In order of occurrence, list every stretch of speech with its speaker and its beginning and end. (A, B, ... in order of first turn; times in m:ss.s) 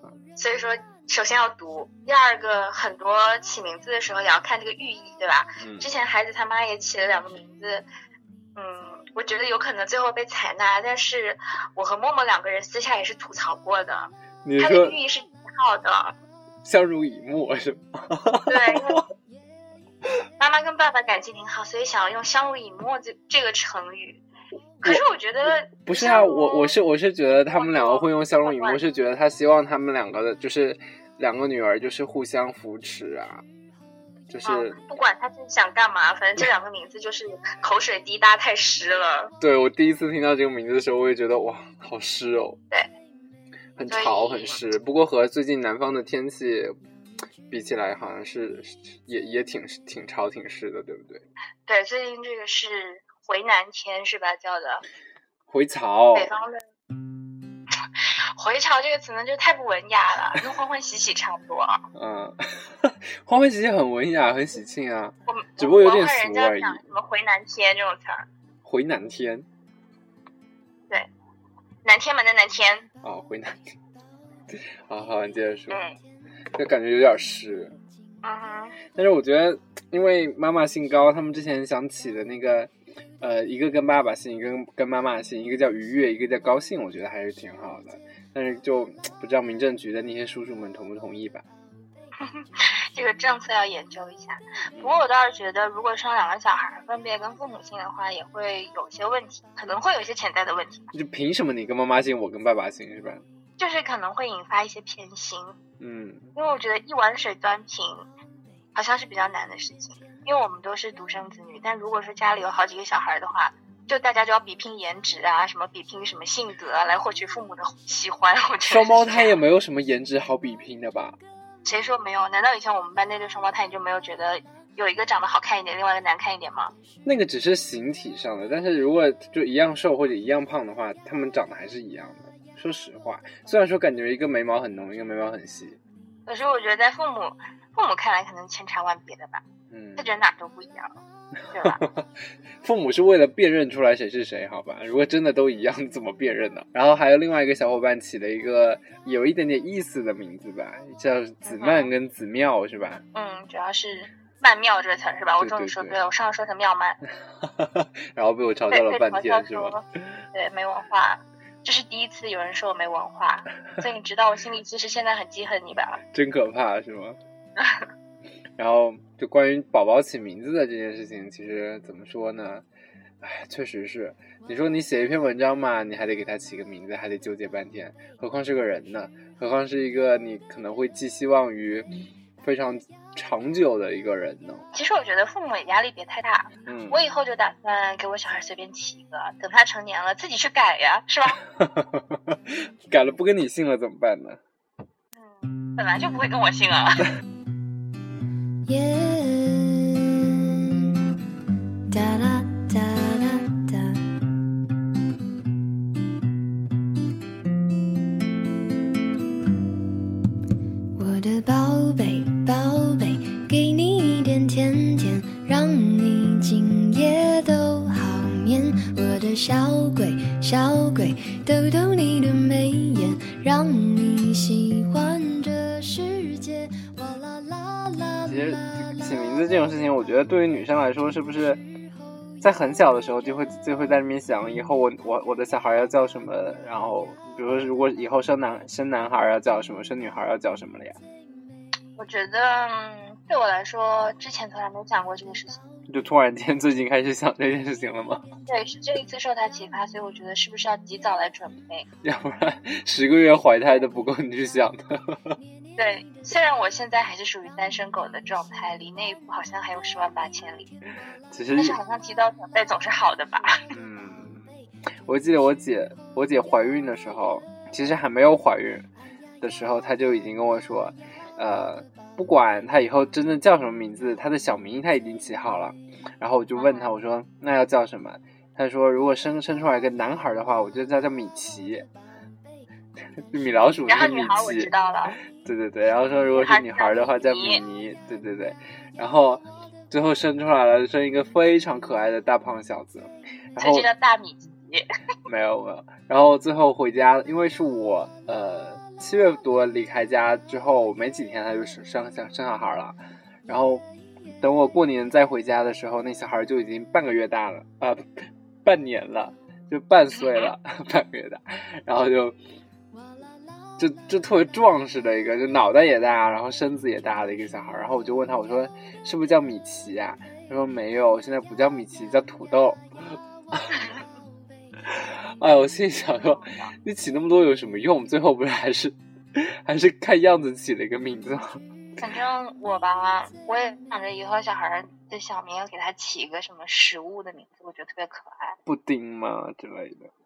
0:00.4-0:07.9 A
0:05.6-0:05.9 B
0:08.6-0:16.1 A
0:14.4-0:15.0 B
0:16.6-0:19.0 B
0:18.5-0:19.0 A
0:20.4-0:24.2 A
0:24.8-0:26.8 A
0:25.8-0:33.4 B
0:27.5-0:28.8 A
0:34.3-0:34.8 B
0:34.4-0:39.3 A
0:39.4-0:42.6 B
0:43.8-0:46.7 B
0:43.9-0:44.6 A
0:47.5-0:51.2 B
0:51.6-0:54.8 A
0:55.5-0:56.3 B
0:56.1-0:56.6 A
0:58.0-1:01.8 A
1:01.9-1:06.8 B
1:05.3-1:08.2 A
1:08.6-1:09.5 B
1:11.8-1:12.9 A
1:13.0-1:13.7 B
1:14.5-1:15.8 B
1:15.7-1:16.0 A
1:16.5-1:17.8 B
1:18.2-1:18.8 A
1:18.9-1:31.4 B
1:32.2-1:40.9 A
1:34.7-1:35.0 B
1:40.9-1:43.2 B
1:43.6-1:45.6 A
1:45.8-1:46.3 B
1:46.3-1:48.1 A
1:48.7-1:59.4 A
1:58.6-2:01.2 B
2:01.6-2:06.7 A
2:07.0-2:15.8 B
2:16.3-2:19.4 A
2:19.7-2:20.2 B
2:20.0-2:20.9 A
2:21.5-2:22.0 B
2:21.5-2:21.8 A
2:22.6-2:33.0 B
2:31.4-2:31.9 A
2:33.1-2:37.0 A
2:35.4-2:36.0 B
2:37.4-2:39.8 B
2:38.7-2:46.0 A
2:46.1-2:47.2 B
2:47.6-2:47.9 A
2:48.6-2:52.6 B
2:53.2-3:01.9 B
3:02.4-3:04.6 B
3:04.7-3:11.4 A
3:06.6-3:07.0 B
3:11.6-3:14.4 B
3:15.1-3:17.1 A
3:18.6-3:21.0 C
3:21.9-3:24.0 C
3:30.9-3:49.0 C
3:48.3-3:51.6 B
3:52.4-4:01.0 B
4:02.0-4:05.6 A
4:05.9-4:08.2 B
4:08.5-4:11.9 A
4:12.0-4:15.4 B
4:15.8-4:20.7 A
4:21.3-4:21.8 B
4:21.6-4:23.5 A
4:23.7-4:24.4 B
4:25.0-4:28.9 B
4:29.4-4:41.9 B
4:36.6-4:36.9 A
4:43.3-4:44.7 B
4:43.9-4:45.2 A
4:45.3-4:53.9 B
4:46.3-4:47.6 A
4:53.6-4:54.8 A
4:55.2-5:03.8 B
5:04.4-5:12.4 B
5:10.2-5:10.5 A
5:13.8-5:23.8 B
5:24.9-5:32.0 B
5:26.2-5:26.7 A
5:32.0-5:38.6 A
5:38.6-5:40.1 B